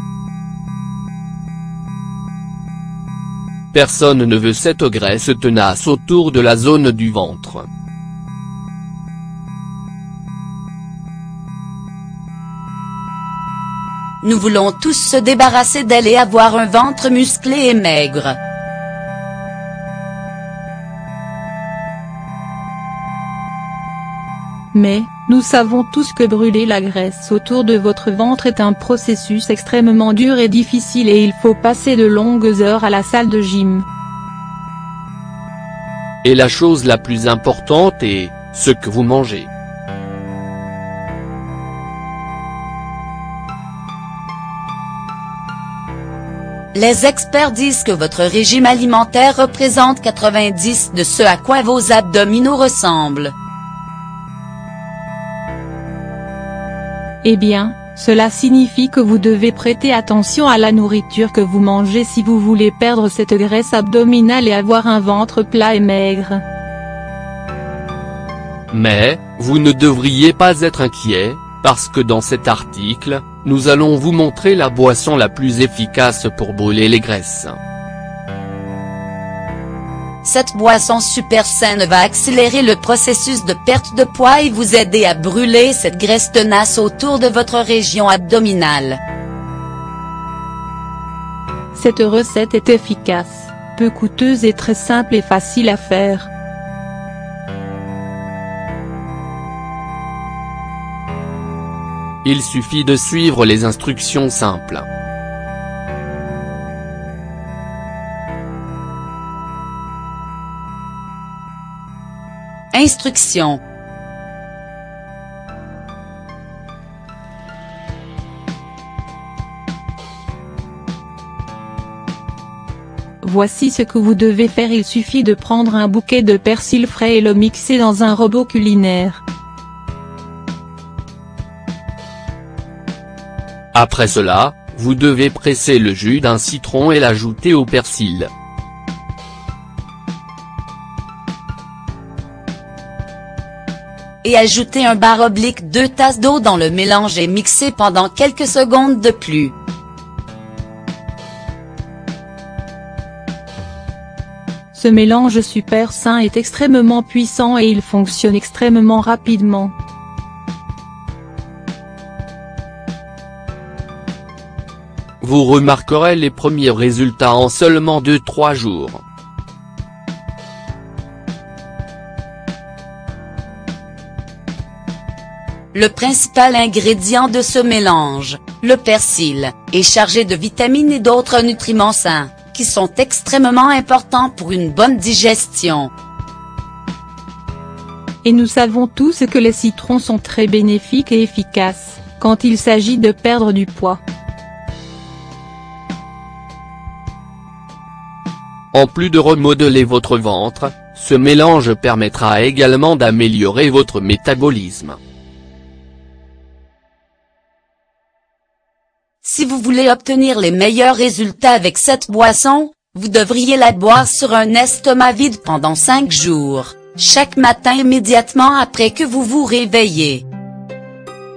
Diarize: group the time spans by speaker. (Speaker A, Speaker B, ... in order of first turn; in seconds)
Speaker A: 3.7-7.7, 36.2-39.5, 68.7-77.6, 102.2-104.9, 133.7-138.3, 165.2-169.0, 198.7-205.0
Speaker B: 14.2-18.4, 46.8-53.3, 80.2-89.0, 112.7-113.6, 144.2-149.6, 175.7-185.9, 209.2-220.2
Speaker C: 24.7-33.9, 57.2-66.4, 91.7-96.3, 123.2-129.2, 154.7-159.7, 188.2-194.0